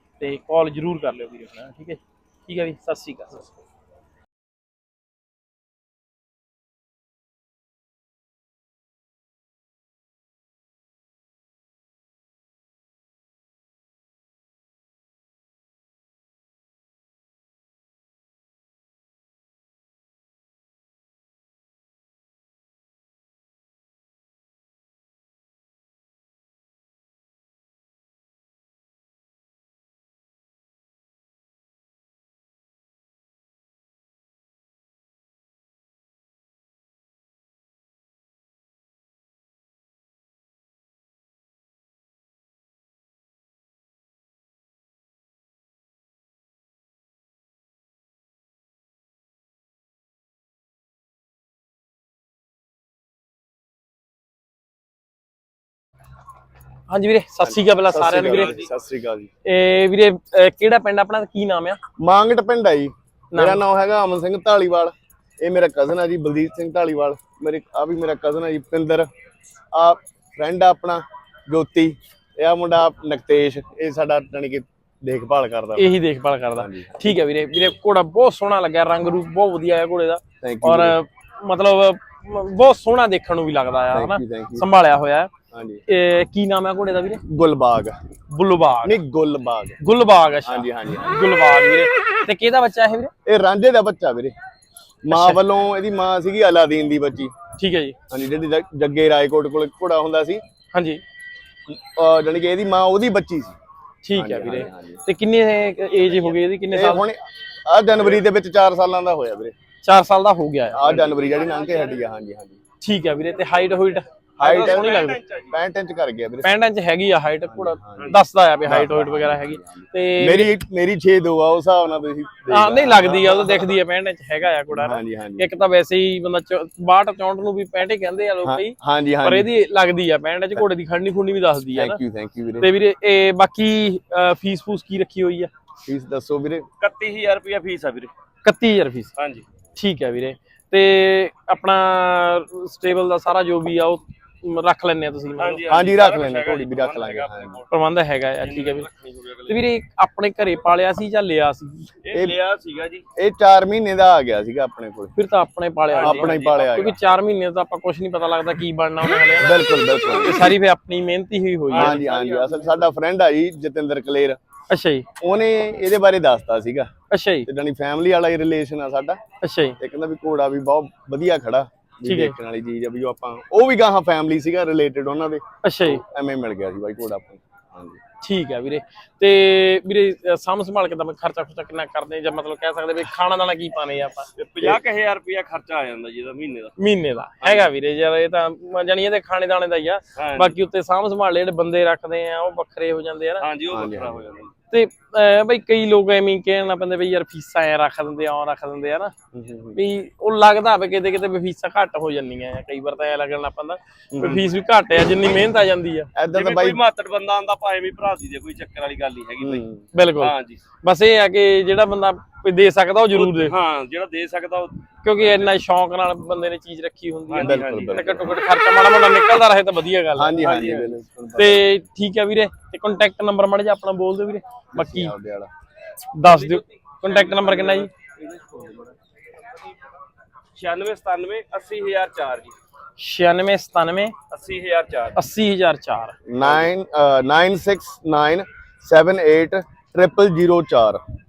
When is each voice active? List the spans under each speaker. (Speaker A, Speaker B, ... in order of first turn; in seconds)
Speaker A: 0.2-3.5, 56.9-58.6, 59.4-61.8, 63.3-63.6, 75.8-85.3, 85.9-87.2, 88.3-89.0, 89.8-93.1, 95.1-95.4, 97.6-98.0, 100.7-101.0, 104.0-107.0, 109.8-111.0, 112.8-115.2, 116.4-120.5, 122.5-132.0, 132.6-135.5, 138.4-139.1, 139.8-145.6, 147.7-148.9, 149.5-151.9, 155.2-162.0, 164.7-165.1, 167.1-167.5, 169.4-169.8, 172.0-172.4, 175.6-176.0, 178.2-184.3, 186.8-193.5, 194.7-199.1, 199.7-206.1, 209.9-213.6, 215.0-220.4, 221.3-225.1, 226.1-227.9, 233.0-234.1, 235.1-236.2
Speaker B: 57.4-59.3, 62.0-69.1, 69.7-75.9, 76.5-77.2, 80.4-81.0, 83.9-84.7, 85.5-85.8, 87.2-88.0, 88.8-89.8, 90.4-91.1, 93.2-94.3, 95.0-97.3, 98.1-100.4, 101.7-103.6, 104.1-105.0, 106.7-109.5, 110.7-112.6, 114.4-115.0, 115.5-116.5, 117.4-123.7, 124.7-125.5, 128.4-129.5, 131.7-132.7, 135.8-136.7, 145.7-147.6, 152.1-152.4, 153.2-155.1, 156.0-156.9, 159.3-160.5, 161.7-164.4, 165.2-166.9, 167.4-169.2, 169.8-178.0, 193.7-194.2, 199.3-199.8, 204.1-204.5, 206.2-206.8, 209.4-209.8, 217.4-218.3, 220.1-221.8, 224.7-225.5, 236.3-241.0
Speaker C: 58.1-58.7, 110.8-112.0, 114.4-115.5, 136.8-138.1, 139.2-139.4, 145.4-147.7, 148.4-149.6, 152.0-153.1, 155.9-156.9, 161.7-162.9, 184.3-186.7, 187.4-187.7, 190.2-190.6, 193.4-194.5, 206.3-209.7, 210.2-210.6, 213.1-215.4, 217.3-218.3, 220.4-221.0, 226.2-229.7, 230.6-232.5, 234.3-235.2, 236.4-236.7